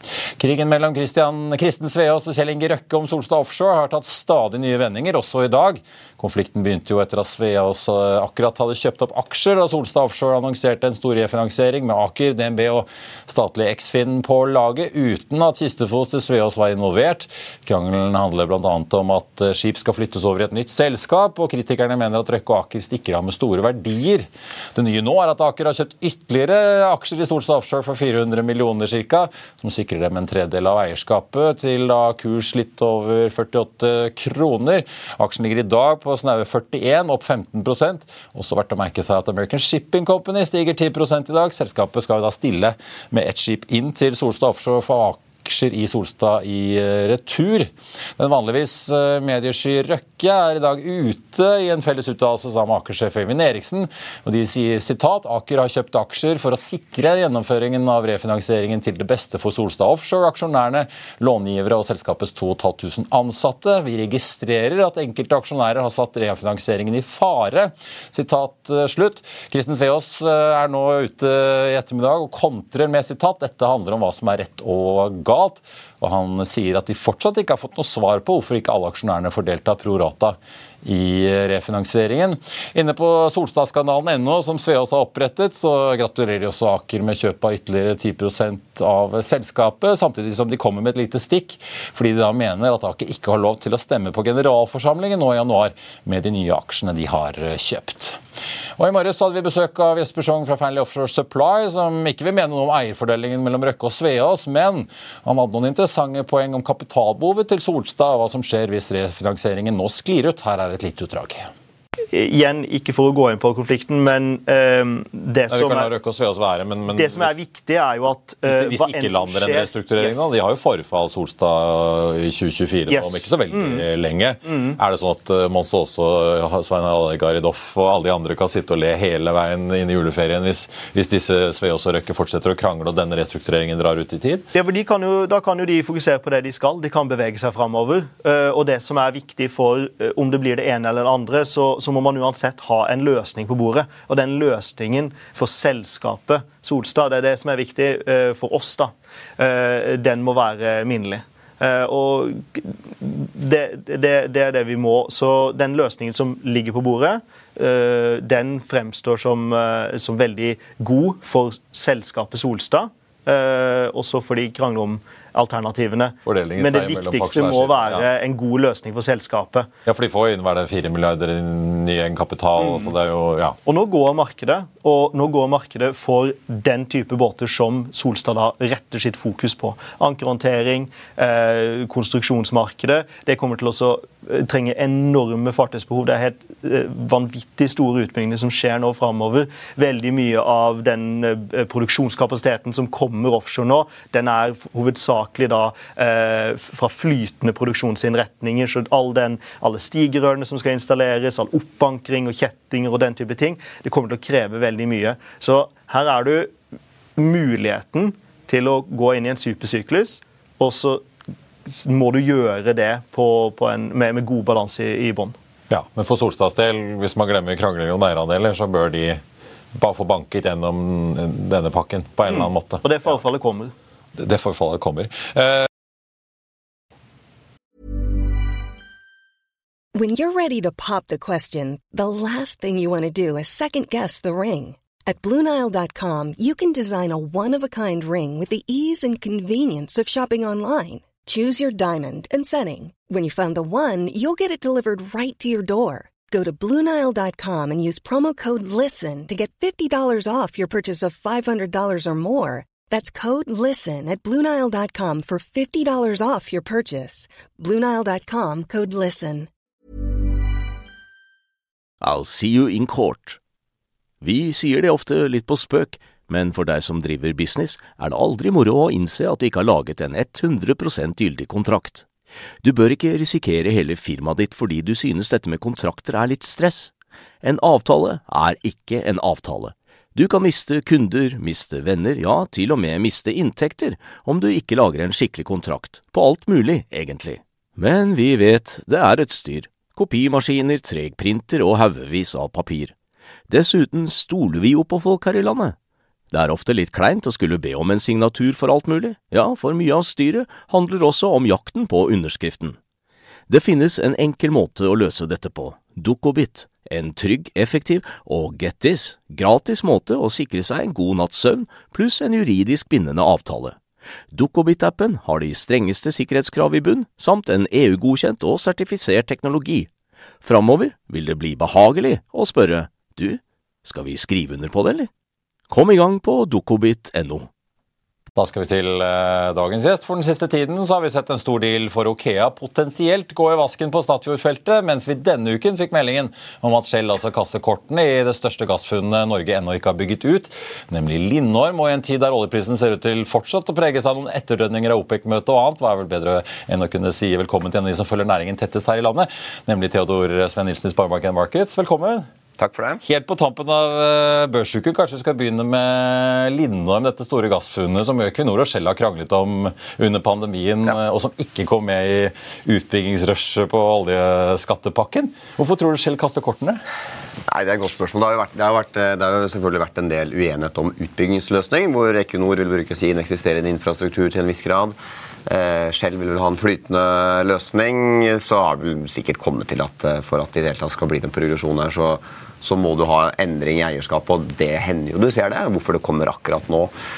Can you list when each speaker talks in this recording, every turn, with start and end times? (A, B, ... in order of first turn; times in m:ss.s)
0:00.4-1:38.2 A
1:38.8-1:51.5 A
1:52.1-1:55.9 B
1:55.5-1:57.3 A
1:56.9-2:00.3 B
1:58.5-2:14.4 A
2:02.9-2:03.8 B
2:04.5-2:04.8 B
2:14.5-2:49.7 B
2:46.2-2:48.0 A
2:49.8-2:53.6 A
2:53.6-3:26.5 B
3:27.2-3:31.0 B
3:31.7-3:35.3 B
3:35.7-3:39.2 A
3:39.7-3:42.8 A
3:42.3-3:43.7 B
3:44.2-3:45.7 A
3:49.9-4:19.5 C
4:22.0-4:23.4 D
4:24.2-4:32.0 D
4:32.6-4:52.9 D
4:53.5-4:55.8 D
4:56.3-5:02.8 D
5:03.5-5:13.8 D
5:14.3-5:19.9 D
5:20.4-5:25.1 D
5:25.7-5:27.5 D
5:28.3-5:52.2 A
5:52.6-5:53.0 E
5:53.0-6:06.8 A
6:07.5-6:26.9 E